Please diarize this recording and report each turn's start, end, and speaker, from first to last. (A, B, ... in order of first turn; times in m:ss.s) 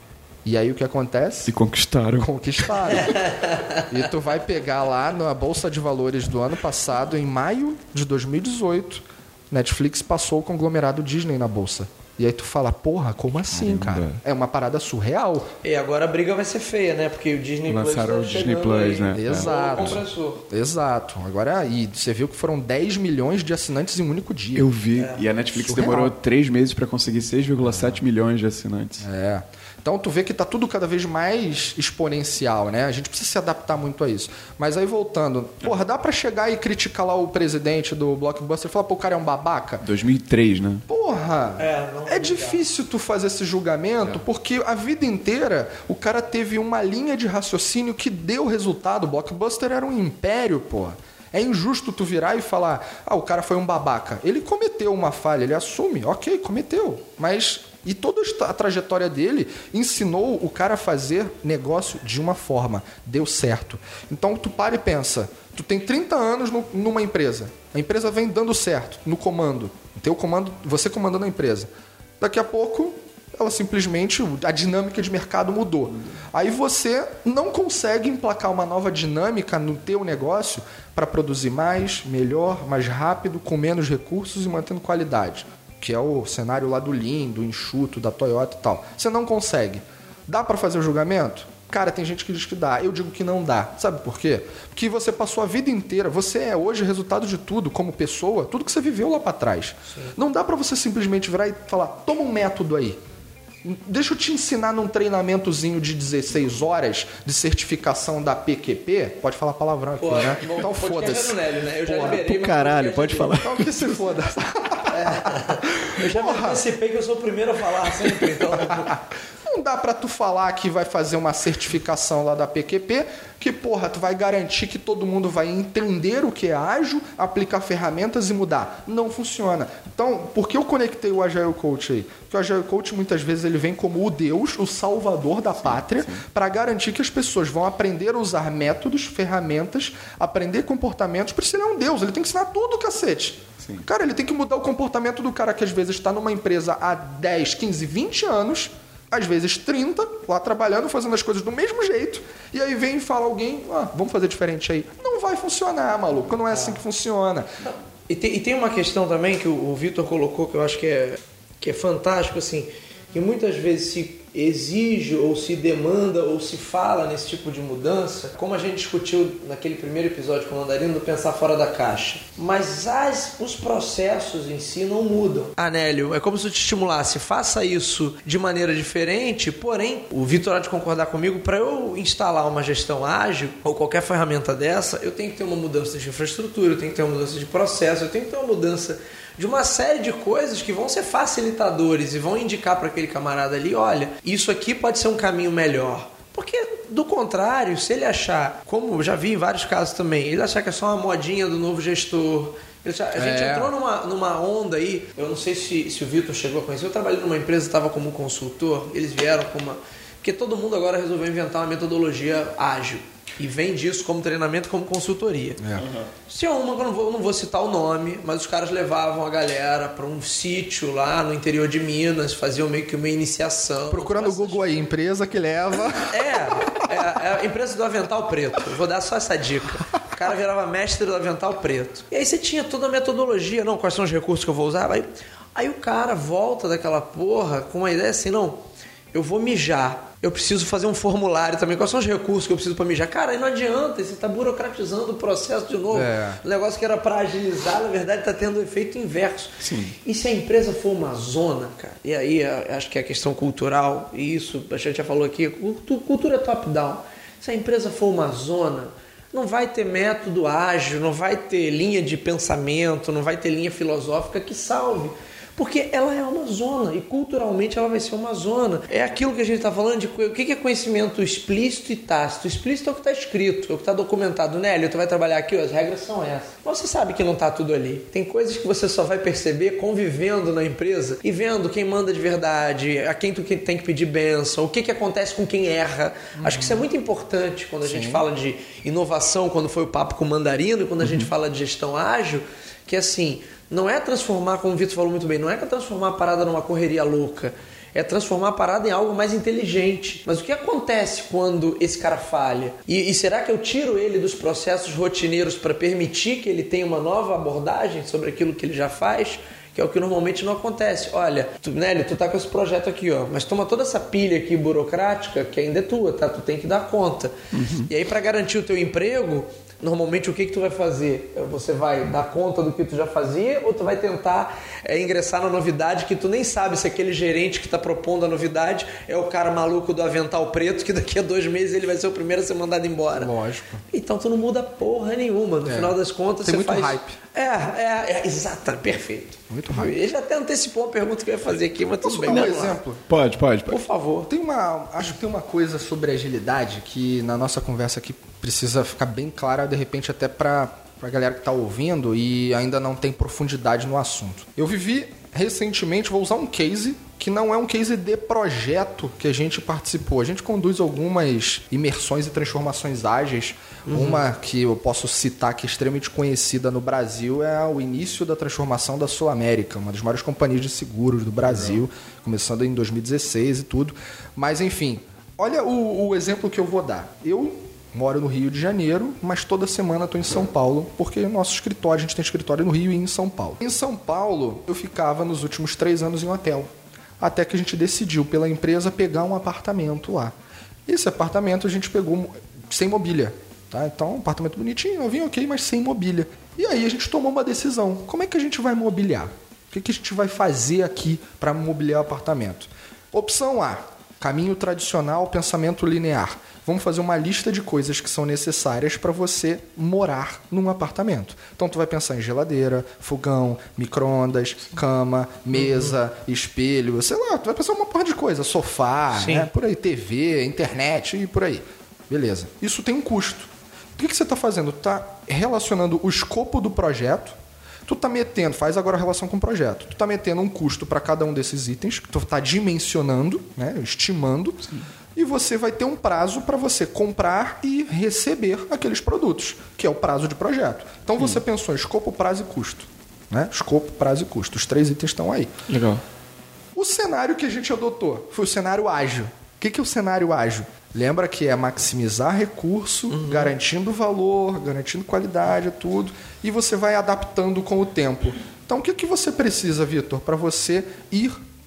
0:00.4-0:01.5 A
0:01.5-0:03.0 B
0:02.2-0:03.3 A
0:03.1-0:03.8 C
0:03.9-0:15.5 A
0:13.5-0:14.2 B
0:15.6-0:20.4 C
0:17.7-0:20.0 B
0:19.1-0:24.7 A
0:24.6-0:29.0 B
0:25.0-0:25.2 C
0:25.6-0:26.1 A
0:29.0-0:39.8 A
0:39.8-0:40.8 B
0:40.9-1:11.7 A
0:41.6-0:42.6 C
1:12.2-1:43.0 A
1:43.6-1:52.2 A
1:50.0-1:53.4 C
1:52.2-1:54.1 B
1:53.4-1:56.6 A
1:54.9-1:59.0 C
1:58.5-2:37.5 A
2:15.6-2:16.2 B
2:36.5-2:36.8 C
2:37.6-3:35.6 C
3:23.2-3:23.7 A
3:35.8-3:36.1 B
3:36.3-3:44.8 C
3:43.9-3:46.9 A
3:45.9-5:17.4 C
4:05.9-4:06.4 A
4:09.6-4:10.0 B
4:46.4-4:46.9 A
4:47.8-4:48.2 A
4:51.0-4:51.3 B
5:17.5-5:17.9 B
5:17.9-5:33.3 C
5:33.1-5:33.8 A
5:33.9-5:42.8 C
5:35.7-5:37.2 A
5:39.5-5:39.9 A
5:42.0-5:43.0 A
5:42.3-5:43.8 B
5:43.7-5:44.3 C
5:44.3-6:30.3 A
6:03.9-6:04.2 C
6:30.9-7:25.5 A
6:59.2-6:59.5 C
7:25.7-7:26.0 B
7:26.8-7:41.4 A
7:33.1-7:33.5 C